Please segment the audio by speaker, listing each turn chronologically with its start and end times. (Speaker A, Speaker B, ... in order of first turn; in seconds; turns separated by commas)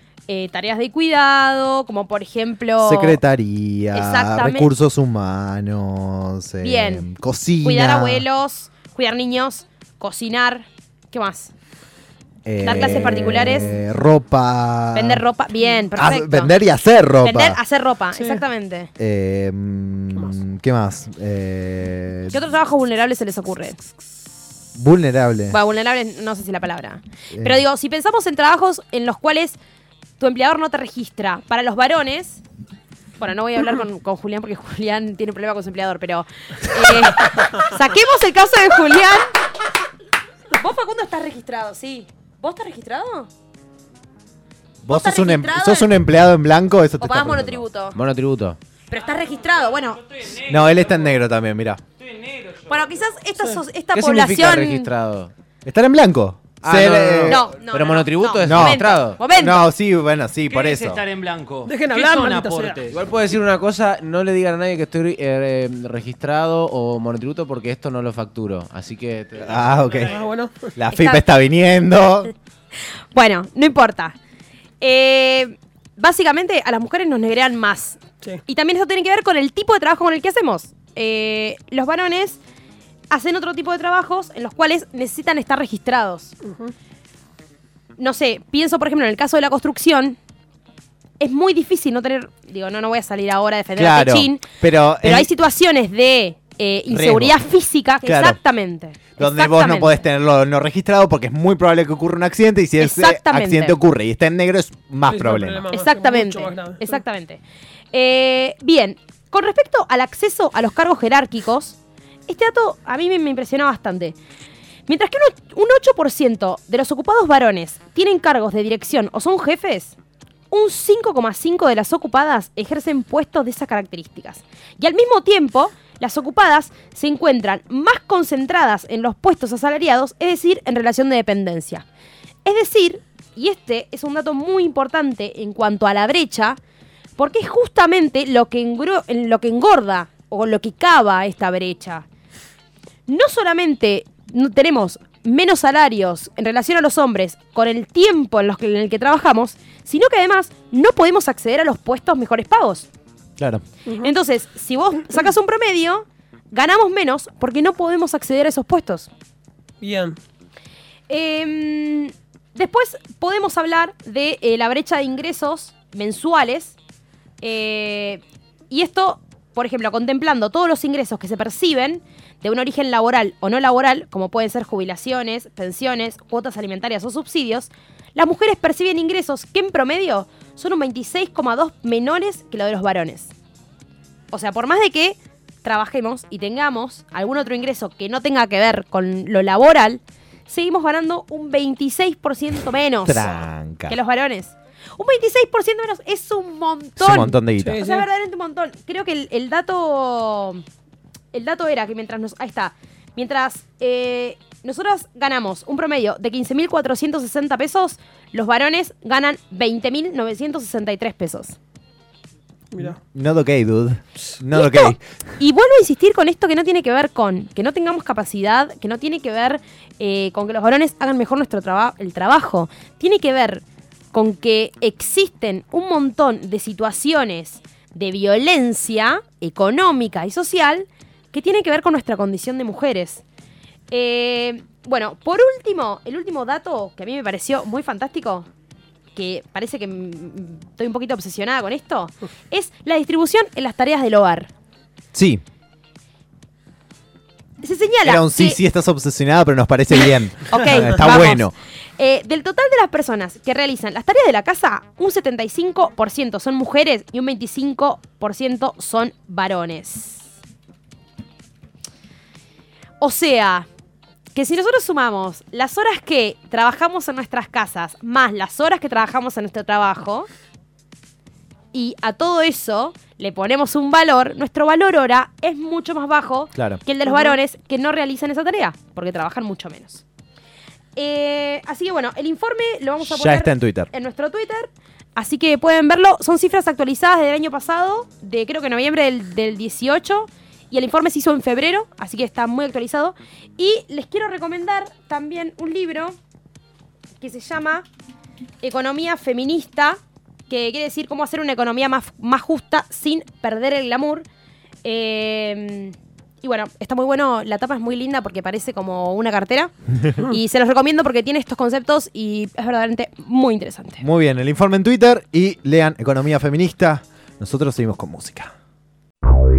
Speaker A: 0.3-3.2, Speaker B: 2.8-8.2, Speaker A: 3.9-4.7, Speaker A: 6.6-7.1, Speaker A: 7.6-11.5, Speaker B: 12.5-15.2, Speaker A: 12.6-13.8, Speaker A: 14.9-16.5, Speaker B: 16.0-17.6, Speaker A: 17.2-18.9, Speaker B: 19.0-22.4, Speaker A: 22.3-23.8, Speaker B: 24.8-25.6, Speaker A: 25.5-29.6, Speaker B: 27.3-27.6, Speaker A: 30.2-32.4, Speaker A: 33.2-39.4, Speaker A: 40.5-43.3, Speaker B: 44.8-47.6, Speaker A: 44.9-45.9, Speaker A: 47.0-48.0, Speaker C: 47.9-48.6, Speaker A: 48.9-50.3, Speaker B: 50.4-51.8, Speaker A: 52.6-54.9, Speaker C: 53.9-55.3, Speaker B: 55.6-57.4, Speaker C: 56.6-59.2, Speaker A: 57.3-59.6, Speaker B: 58.4-61.1, Speaker D: 60.5-62.8, Speaker E: 61.7-62.9, Speaker C: 62.6-70.1, Speaker B: 69.4-70.2, Speaker E: 70.1-70.7, Speaker B: 70.8-72.3, Speaker A: 70.9-71.2, Speaker A: 73.1-74.2, Speaker A: 74.8-82.4, Speaker A: 83.1-86.3, Speaker A: 88.0-90.2, Speaker A: 91.2-94.5, Speaker B: 93.8-95.3, Speaker A: 95.0-100.0, Speaker B: 96.9-97.4, Speaker B: 98.0-98.4, Speaker B: 99.2-105.7, Speaker A: 102.8-103.8, Speaker E: 105.1-107.0, Speaker A: 105.7-111.8, Speaker A: 112.3-114.2, Speaker A: 114.9-120.0, Speaker A: 120.5-131.8, Speaker A: 132.4-136.6, Speaker A: 137.2-142.1, Speaker A: 143.1-152.9, Speaker A: 154.0-159.1, Speaker E: 159.8-160.2, Speaker A: 161.1-166.8, Speaker A: 167.4-183.3, Speaker A: 184.3-200.6, Speaker B: 193.1-194.0, Speaker B: 197.0-197.8, Speaker E: 197.7-198.0, Speaker A: 201.3-211.6, Speaker B: 212.8-215.0, Speaker A: 214.5-233.2, Speaker A: 233.9-238.5, Speaker A: 239.1-244.5, Speaker B: 245.1-245.4, Speaker A: 247.6-248.6, Speaker B: 248.0-251.5, Speaker A: 250.0-260.3, Speaker A: 263.0-263.7, Speaker A: 264.3-270.3, Speaker A: 271.7-280.0, Speaker A: 281.0-296.1, Speaker B: 283.0-283.9, Speaker A: 297.2-297.9, Speaker A: 298.6-300.0, Speaker A: 300.5-304.3, Speaker A: 304.8-314.1, Speaker B: 314.0-318.5